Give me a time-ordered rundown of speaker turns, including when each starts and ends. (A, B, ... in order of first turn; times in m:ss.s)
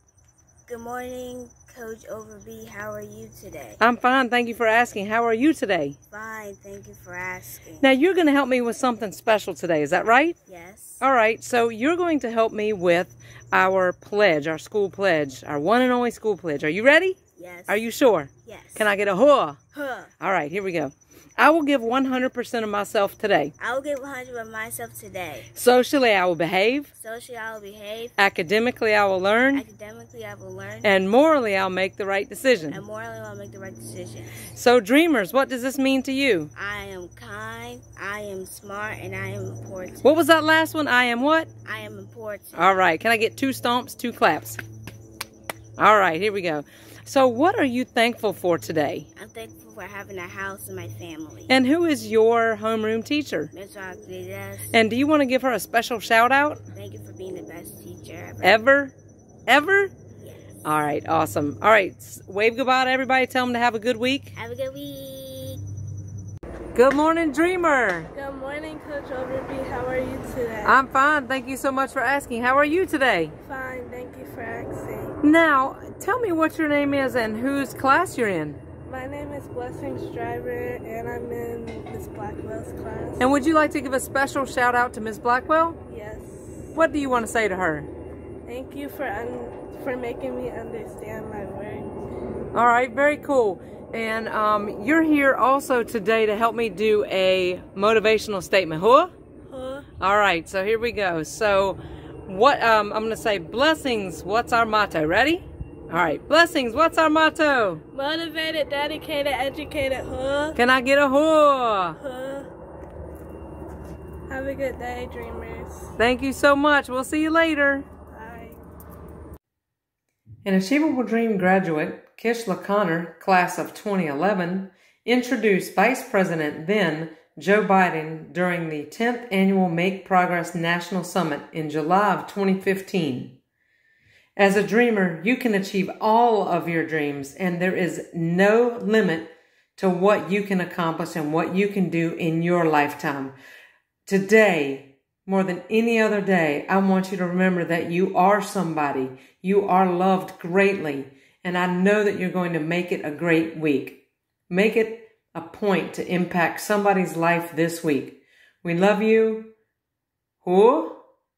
0:00.7-0:03.8 A
0:03.8-0:06.0 B
0:06.1-0:07.9 A
0:07.8-0:10.4 B
0:10.5-0:11.0 A
0:11.0-0:19.6 B
0:17.4-0:17.9 A
0:18.5-0:18.9 A
0:19.7-0:20.1 A
0:20.2-0:23.5 B
0:23.6-0:25.5 A
0:25.5-0:26.9 B
0:27.0-0:28.2 A
0:28.2-0:29.6 B
0:29.5-0:31.0 A
0:30.8-0:32.8 B
0:32.7-0:34.5 A
0:34.5-0:36.5 B
0:36.6-0:40.1 A
0:40.0-0:41.5 B
0:41.6-0:42.8 A
0:42.6-0:44.6 B
0:45.8-0:49.1 B
0:49.2-0:51.5 A
0:51.5-0:53.5 B
0:53.5-0:54.8 A
0:54.7-0:56.6 B
0:56.7-0:58.6 A
0:58.4-0:58.9 B
0:59.5-0:59.9 B
1:00.2-1:00.6 A
1:00.6-1:04.3 B
1:04.4-1:05.6 A
1:06.7-1:08.1 B
1:08.1-1:10.8 C
1:10.6-1:13.3 B
1:13.4-1:15.2 C
1:15.2-1:18.6 B
1:18.9-1:23.2 C
1:23.2-1:25.8 B
1:25.9-1:26.6 C
1:26.7-1:27.9 B
1:28.5-1:31.9 C
1:32.5-1:39.1 B
1:39.5-1:39.9 C
1:40.0-1:47.8 B
1:47.9-1:50.6 C
1:50.6-1:52.0 B
1:52.0-1:52.5 C
1:54.3-1:55.9 C
1:56.0-1:57.9 B
1:58.1-1:58.6 C
2:00.4-2:13.4 B
2:14.4-2:23.4 B
2:24.1-2:39.5 B
2:40.4-2:41.0 B